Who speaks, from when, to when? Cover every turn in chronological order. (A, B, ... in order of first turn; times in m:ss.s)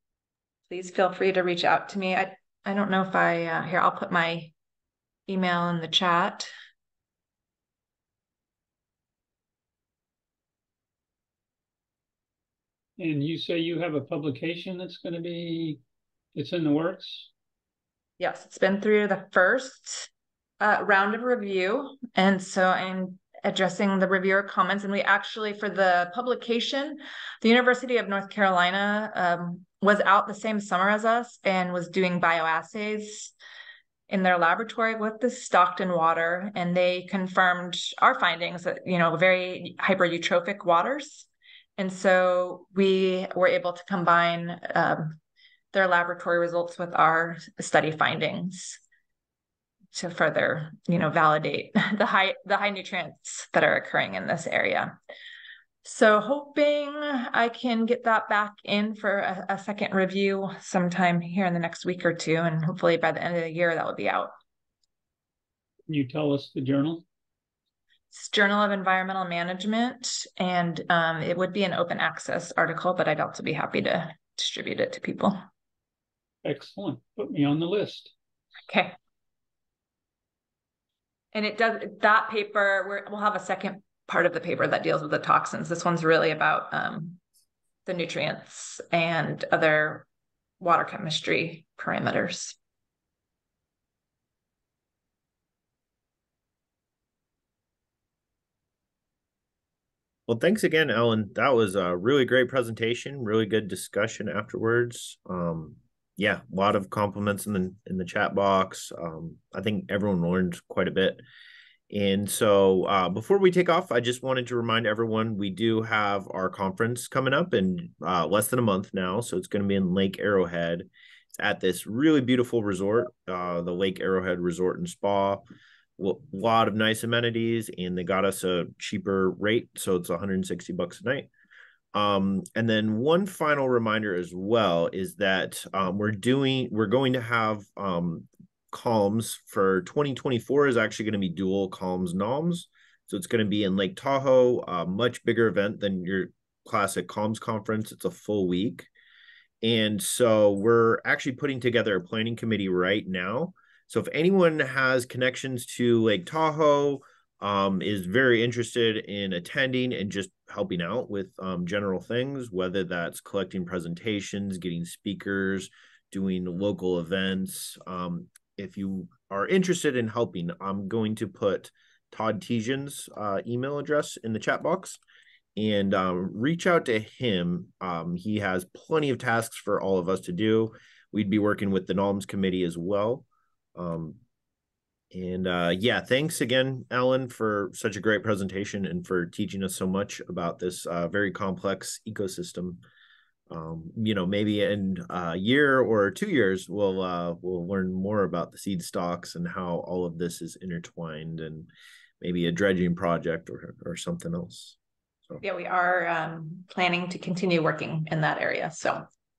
0:00.7-0:04.5 A
0:05.3-0:06.5 A
0:13.0-0:15.8 B
0:16.3-0:17.3 B
0:18.2-0:33.3 A
0:34.1-0:45.2 A
0:45.7-0:48.8 A
0:49.9-0:55.0 A
0:55.8-1:04.3 A
1:05.9-1:07.0 B
1:08.1-1:15.4 A
1:16.4-1:18.1 B
1:18.7-1:19.0 A
1:21.3-1:27.2 A
1:27.9-1:30.1 A
1:30.6-1:32.6 A
1:40.3-1:51.2 C
1:51.9-2:05.4 C
2:06.0-2:11.3 C
2:11.9-2:28.9 C
2:29.6-2:55.0 C
2:55.6-3:04.2 C
3:05.1-3:12.8 C
3:13.5-3:21.7 C
3:22.2-3:24.8 C
3:25.4-3:29.0 A